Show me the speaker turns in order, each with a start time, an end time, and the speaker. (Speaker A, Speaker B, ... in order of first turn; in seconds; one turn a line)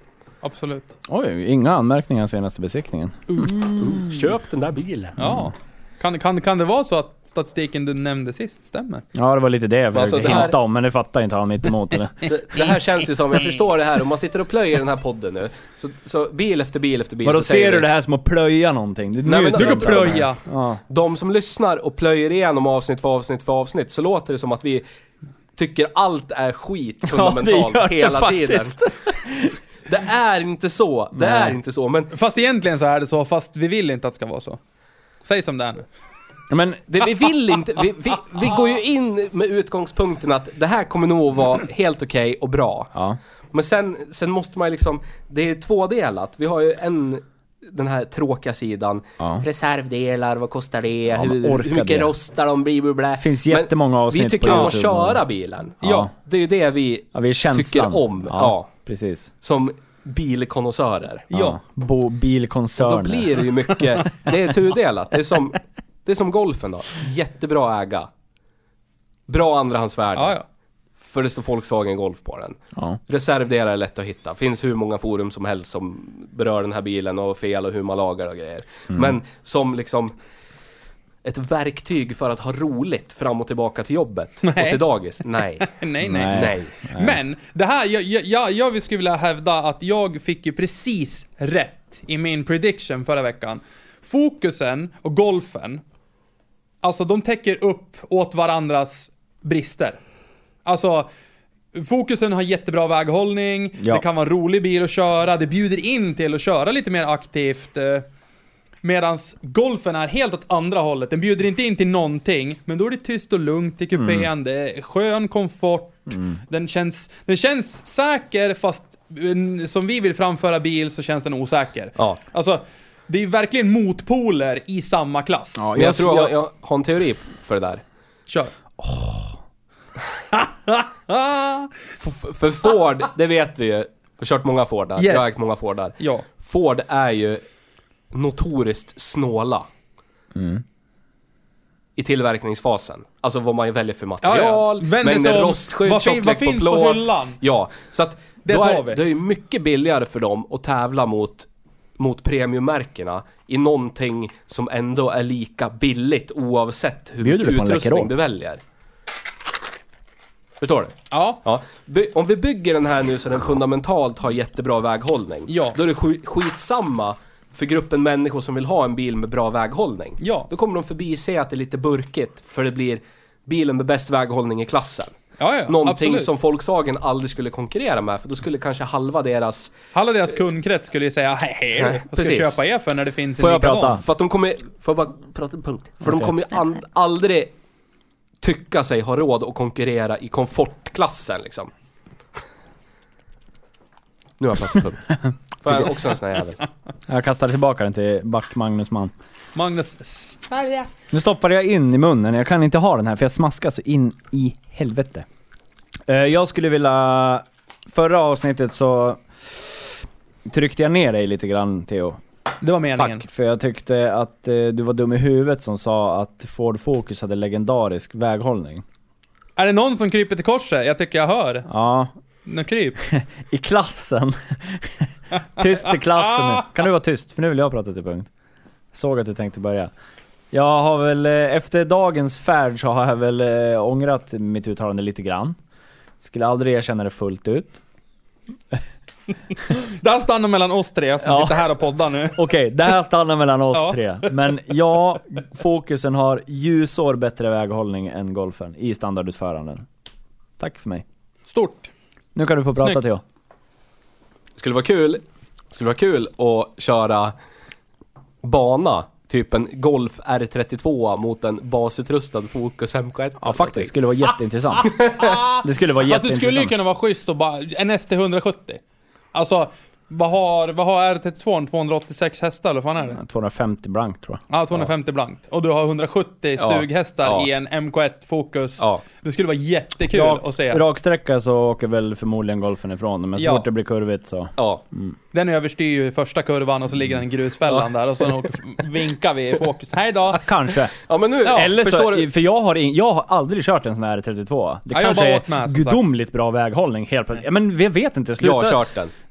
Speaker A: 0.4-0.9
Speaker B: 1.1-4.0
Speaker C: 3.8-5.2
Speaker A: 5.2-9.1
Speaker B: 5.2-5.5
Speaker B: 9.2-12.3
Speaker C: 9.9-10.6
Speaker C: 12.2-17.9
Speaker B: 17.2-20.8
Speaker C: 19.2-20.3
Speaker A: 19.6-20.4
Speaker C: 20.9-24.8
Speaker C: 25.6-29.2
Speaker B: 27.1-29.6
Speaker C: 29.9-32.1
Speaker B: 31.1-31.6
Speaker A: 32.1-34.6
Speaker A: 35.2-35.9
Speaker B: 36.5-36.9
Speaker C: 36.9-42.9
Speaker B: 42.9-43.2
Speaker C: 43.5-58.7
Speaker B: 49.2-49.5
Speaker B: 51.1-52.1
Speaker B: 53.2-55.2
Speaker B: 55.8-56.1
Speaker A: 55.8-56.1
Speaker B: 57.1-59.3
Speaker C: 59.4-61.3
Speaker A: 61.3-61.6
Speaker B: 61.3-63.5
Speaker C: 62.8-68.1
Speaker C: 69.3-70.4
Speaker A: 70.2-70.5
Speaker C: 71.0-80.1
Speaker C: 81.2-85.7
Speaker A: 84.4-84.8
Speaker A: 85.6-95.8
Speaker B: 86.0-87.2
Speaker C: 86.3-86.8
Speaker A: 96.8-100.0
Speaker A: 100.7-101.1
Speaker A: 101.7-108.1
Speaker B: 103.8-104.0
Speaker A: 108.8-125.8
Speaker B: 114.0-114.3
Speaker B: 116.1-116.4
Speaker B: 125.6-126.3
Speaker C: 125.8-127.8
Speaker B: 128.8-129.4
Speaker A: 130.3-131.9
Speaker C: 132.0-137.4
Speaker A: 135.0-135.4
Speaker A: 136.0-136.3
Speaker C: 138.1-139.7
Speaker B: 140.3-140.6
Speaker C: 142.0-158.6
Speaker A: 144.2-147.4
Speaker A: 148.4-149.0
Speaker B: 157.2-158.1
Speaker C: 160.6-175.1
Speaker A: 161.1-161.4
Speaker A: 165.5-165.8
Speaker A: 170.2-170.5
Speaker A: 175.4-176.3
Speaker C: 175.7-179.7
Speaker A: 179.9-184.0
Speaker C: 181.8-182.6
Speaker B: 183.4-184.0
Speaker C: 183.8-187.5
Speaker B: 186.1-186.3
Speaker C: 188.4-191.7
Speaker C: 194.4-196.6
Speaker B: 197.1-199.1
Speaker A: 199.6-200.9
Speaker B: 201.1-205.2
Speaker B: 206.1-212.2
Speaker A: 212.6-213.2
Speaker B: 213.0-218.8
Speaker A: 219.6-221.7
Speaker B: 221.7-222.1
Speaker A: 222.5-223.0
Speaker B: 223.0-228.3
Speaker A: 226.2-226.7
Speaker B: 228.9-229.9
Speaker B: 230.5-235.6
Speaker B: 236.2-237.8
Speaker A: 239.6-242.5
Speaker B: 241.2-241.7
Speaker B: 242.3-249.8
Speaker A: 243.7-244.3
Speaker B: 250.6-251.1
Speaker A: 251.5-251.9
Speaker B: 252.3-253.2
Speaker C: 254.6-257.4
Speaker C: 258.4-263.9
Speaker B: 263.4-266.7
Speaker A: 264.8-268.8
Speaker C: 264.9-265.2
Speaker A: 269.3-273.2
Speaker B: 273.1-274.9
Speaker A: 274.5-280.8
Speaker C: 276.6-277.5
Speaker B: 280.0-285.2
Speaker A: 283.4-283.6
Speaker C: 284.6-284.8
Speaker A: 285.3-290.4
Speaker B: 290.3-290.9
Speaker C: 291.1-292.3
Speaker B: 291.5-298.8
Speaker A: 294.9-296.0
Speaker C: 298.4-299.1